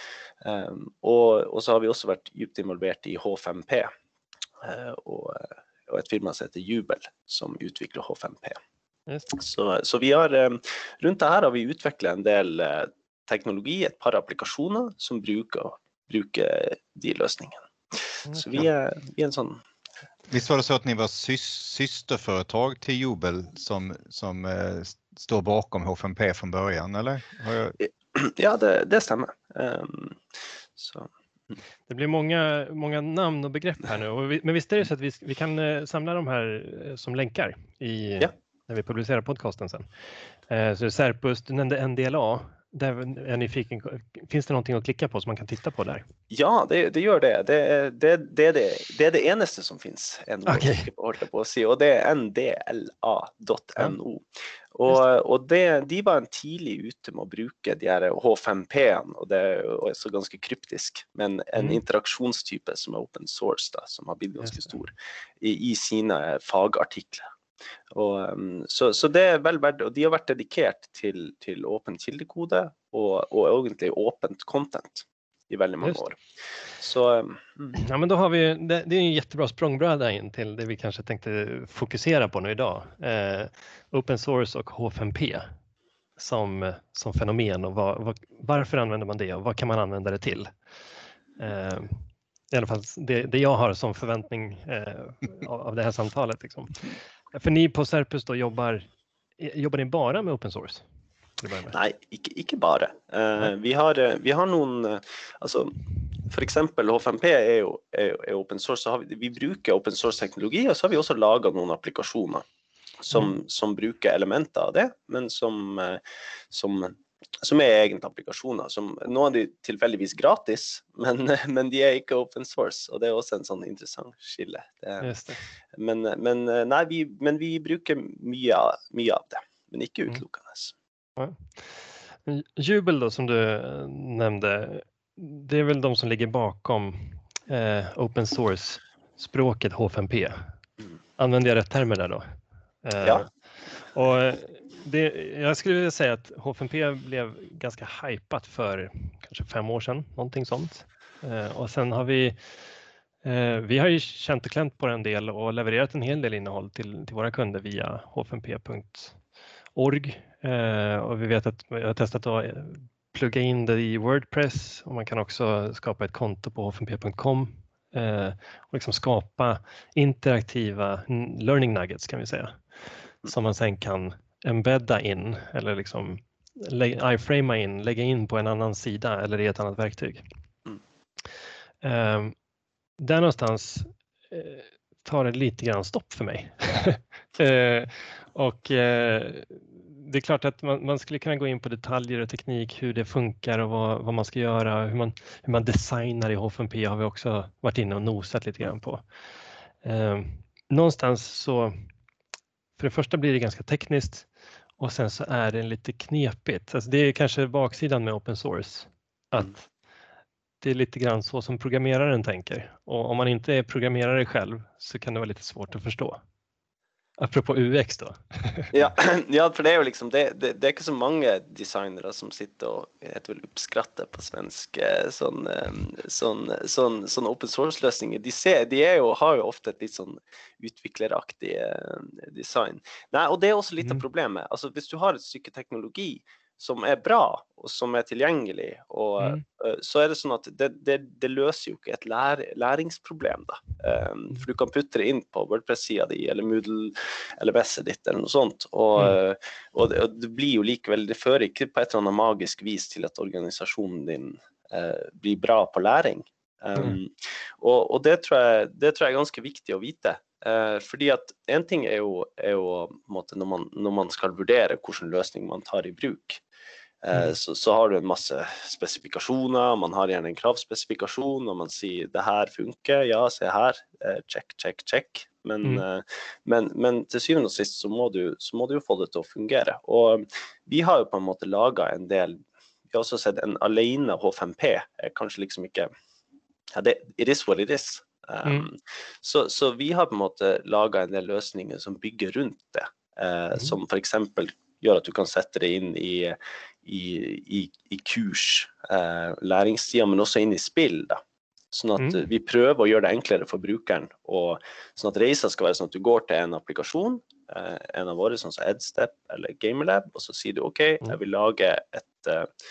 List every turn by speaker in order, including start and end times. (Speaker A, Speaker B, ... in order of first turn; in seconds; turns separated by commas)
Speaker A: 0.4-3.9, Speaker A: 4.6-8.6, Speaker B: 9.1-9.3, Speaker A: 9.3-19.6, Speaker B: 18.3-18.7, Speaker C: 20.3-27.8, Speaker A: 27.8-30.2, Speaker A: 30.8-31.1, Speaker B: 31.9-39.9, Speaker B: 40.5-46.1, Speaker A: 46.3-54.2, Speaker B: 50.5-50.9, Speaker A: 54.7-67.3, Speaker B: 64.4-64.7, Speaker A: 67.9-76.2, Speaker A: 76.8-77.7, Speaker B: 77.7-85.5, Speaker B: 86.2-90.5, Speaker B: 91.4-96.8, Speaker B: 97.3-98.8, Speaker B: 99.4-100.8, Speaker B: 101.4-101.7, Speaker A: 101.7-105.8, Speaker A: 106.3-112.4, Speaker A: 113.0-125.2, Speaker B: 125.0-125.4, Speaker A: 125.7-130.7, Speaker B: 131.2-140.4, Speaker B: 141.2-142.2, Speaker B: 142.8-143.3, Speaker B: 143.8-152.5, Speaker B: 153.2-159.2, Speaker B: 159.7-172.6, Speaker B: 173.2-180.2, Speaker B: 181.8-182.3, Speaker B: 183.0-199.1, Speaker B: 199.8-201.8, Speaker B: 202.8-209.7, Speaker B: 210.6-216.2, Speaker B: 217.2-218.7, Speaker A: 218.7-266.4, Speaker A: 267.0-285.9, Speaker A: 286.7-312.5